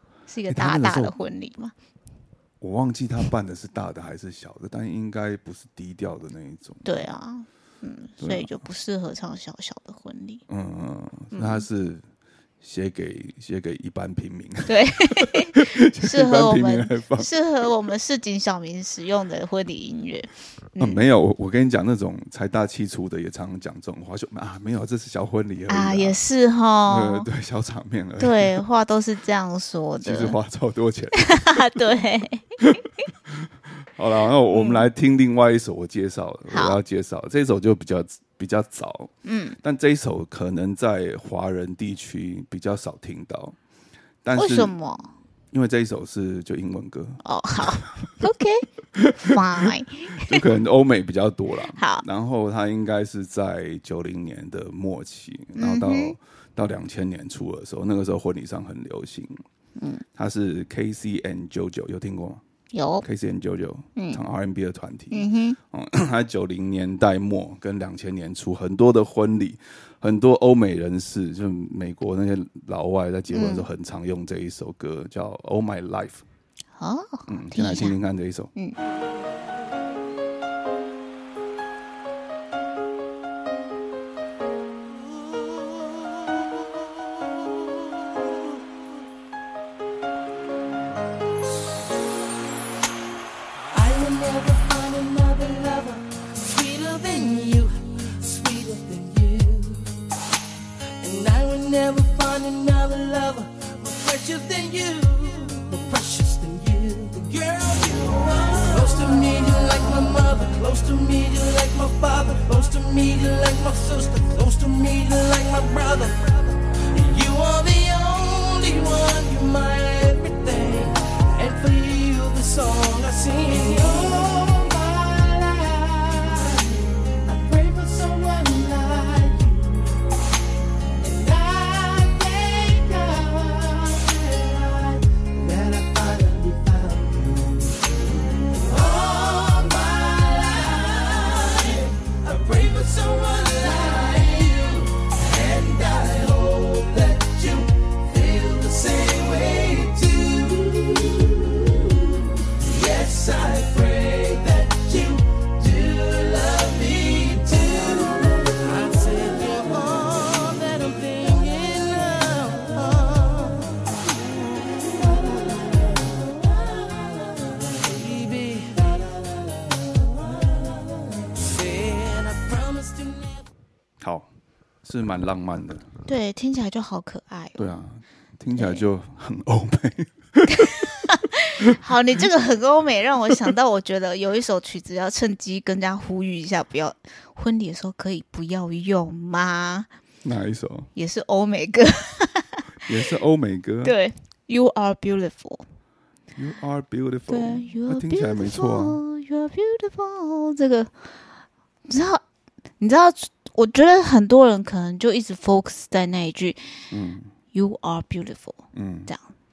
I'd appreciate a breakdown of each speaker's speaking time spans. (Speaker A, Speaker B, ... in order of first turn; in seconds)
Speaker A: 0.3-1.7, 6.8-10.4, 11.3-11.7, 14.7-21.0, 25.7-27.3, 28.2-30.4, 31.2-32.8, 34.5-34.9, 36.5-36.8, 39.2-39.6, 44.3-45.1, 47.2-48.7, 49.2-50.4, 51.8-52.0, 55.5-56.1, 59.8-60.0, 62.7-63.0, 65.1-65.6, 73.3-73.7, 76.8-78.0, 176.1-177.8, 178.5-178.8, 180.5-189.9, 190.9-192.9, 193.8-195.6, 197.3-201.2, 201.9-202.2, 202.8-206.9, 207.5-209.3
Speaker B: 0.5-1.1, 2.6-7.0, 8.2-8.5, 10.5-12.0, 12.6-17.3, 20.8-26.2, 26.9-28.6, 30.0-31.8, 33.2-43.6, 44.2-44.7, 45.5-48.1, 48.9-59.4, 60.1-62.4, 63.0-76.2, 77.3-78.5, 174.0-174.3, 174.8-175.9, 177.6-180.7, 190.2-190.9, 192.8-193.9, 196.3-199.0, 206.9-207.3, 208.7-209.1
Speaker C: 93.7-100.0, 101.0-130.1, 131.0-137.9, 138.5-163.9, 164.9-165.8, 167.7-169.2, 171.3-173.4